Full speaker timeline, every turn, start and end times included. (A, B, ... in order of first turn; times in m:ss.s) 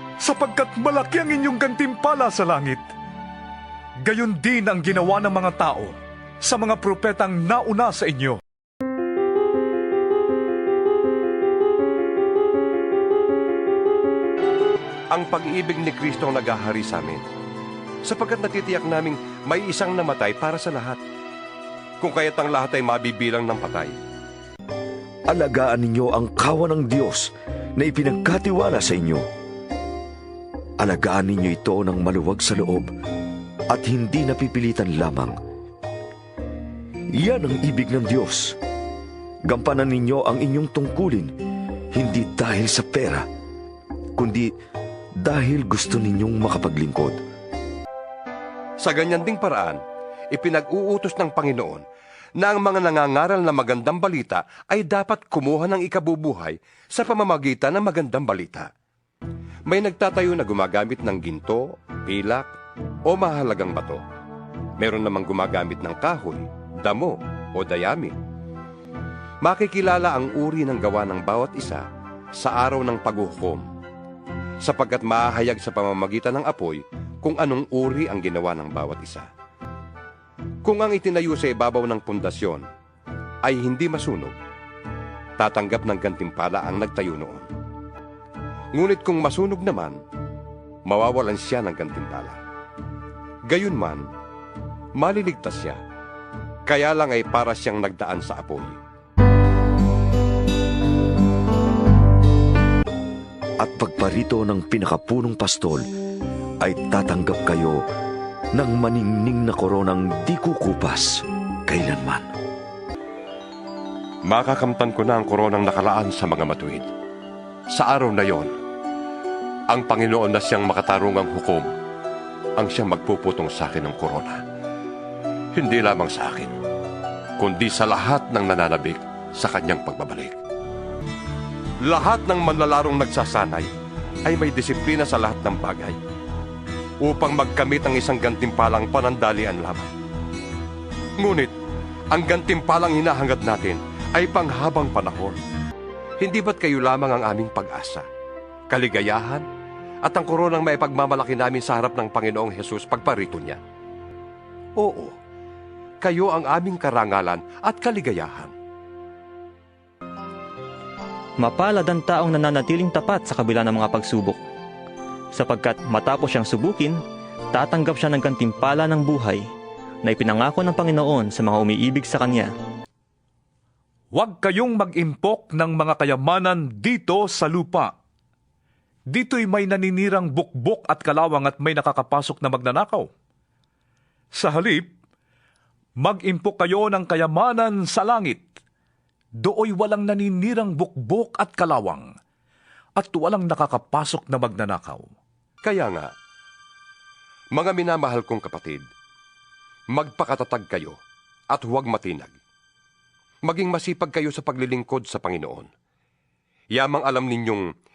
0:00.2-0:02.9 A
0:04.0-0:08.4 A
0:15.1-0:17.2 B
0:18.0-0:21.0 B
0:22.0-0:23.9 B
0:25.3-0:29.2 C
0:30.8-0:32.9 C
0:33.7-0:35.4 C
0:37.1-0:38.6 C
0:39.5-0:41.3 C
0:41.9-0:43.2 C
0:44.2-0:44.5 C
0:45.2-0:47.2 C
0:48.8-0:49.8 B
0:50.3-0:51.8 B
0:52.4-0:58.7 B
0:59.7-1:02.5 B
1:03.1-1:04.0 B
1:04.8-1:08.1 B
1:09.4-1:11.8 B
1:12.4-1:13.6 B
1:14.6-1:19.3 B
1:20.6-1:22.6 B
1:23.4-1:24.4 B
1:25.4-1:27.4 B
1:28.7-1:30.0 B
1:30.9-1:32.4 B
1:33.5-1:34.0 B
1:35.0-1:35.8 B
1:36.7-1:38.8 B
1:43.6-1:45.8 C
1:46.6-1:47.8 C
1:48.5-1:52.3 C
1:54.3-1:56.9 B
1:57.7-1:58.5 B
1:59.7-2:01.7 B
2:02.6-2:04.4 B
2:05.5-2:06.5 B
2:07.4-2:10.3 B
2:11.8-2:13.7 B
2:14.2-2:16.0 B
2:17.0-2:19.9 B
2:21.2-2:21.5 B
2:22.1-2:25.4 B
2:26.2-2:28.0 B
2:28.7-2:29.4 B
2:30.0-2:33.6 B
2:34.8-2:35.1 B
2:36.0-2:38.5 B
2:41.4-2:44.4 D
2:45.3-2:47.0 D
2:47.5-2:49.5 D
2:50.0-2:52.5 D
2:54.1-2:57.9 A
2:59.1-3:03.1 A
3:04.3-3:04.9 A
3:06.0-3:08.5 A
3:09.4-3:12.1 A
3:13.0-3:15.1 A
3:15.6-3:16.1 B
3:17.6-3:18.8 B
3:19.9-3:21.0 B
3:21.5-3:22.4 B
3:23.4-3:25.7 B
3:26.7-3:27.6 B